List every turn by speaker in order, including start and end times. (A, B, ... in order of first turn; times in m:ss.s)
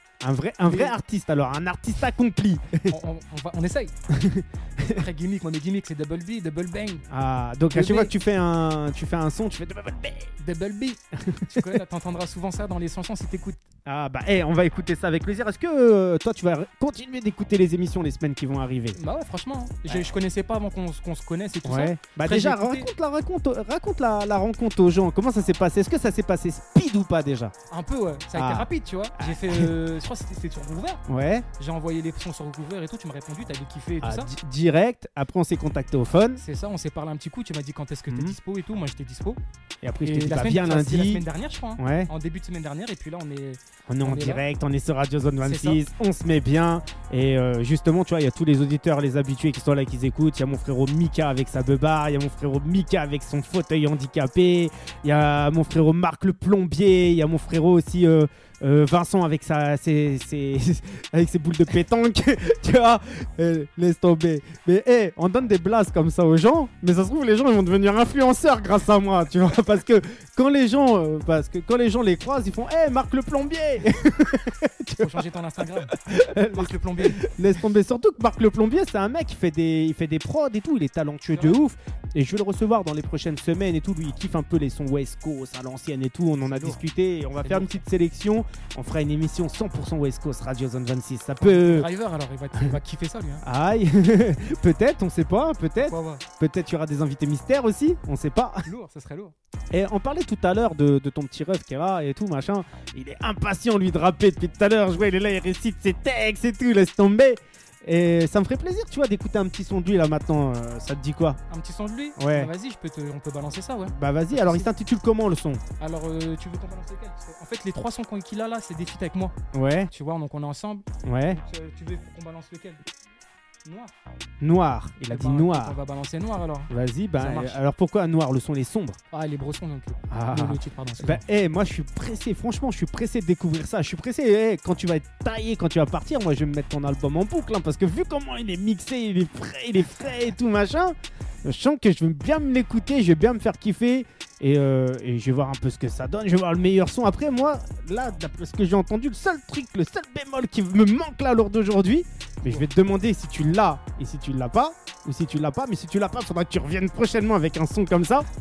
0:00.2-0:03.0 A
0:00.6-0:01.0 B
0:02.9-0:04.0 B
0:04.1-0:05.0 A
0:04.9-0:07.0 B
0:07.1-0:10.3 A
0:07.7-0:08.1 B
0:10.4-0:13.6 B
0:11.2-0:11.8 A
0:13.9-0:19.0 A
0:19.0-0:22.9 B
0:19.9-0:20.1 A
0:21.6-0:27.5 A
0:27.7-0:31.0 B
0:28.3-0:29.7 A
0:31.1-0:31.5 A
0:31.6-0:34.3 B
0:34.0-0:36.4 A
0:36.4-0:39.4 B
0:38.1-0:38.4 A
0:39.8-0:41.3 A
0:40.0-0:44.4 B
0:41.8-0:42.1 A
0:43.9-1:15.3 A
0:45.4-0:45.8 B
1:15.0-1:17.2 B
1:15.9-1:31.9 A
1:21.3-1:21.6 B
1:26.4-1:26.8 B
1:27.4-1:27.8 B
1:31.4-1:33.4 B
1:33.4-1:38.7 A
1:35.8-1:36.2 B
1:38.6-1:39.4 B
1:39.7-1:51.4 A
1:51.5-1:54.7 B
1:52.2-1:52.5 A
1:53.9-1:55.6 A
1:55.8-1:59.4 B
1:59.5-1:59.9 A
1:59.9-2:02.8 B
2:01.0-2:01.4 A
2:03.6-2:03.9 B
2:04.4-2:05.8 A
2:05.1-2:07.6 B
2:06.7-2:09.0 A
2:09.1-2:11.2 B
2:10.1-2:38.3 A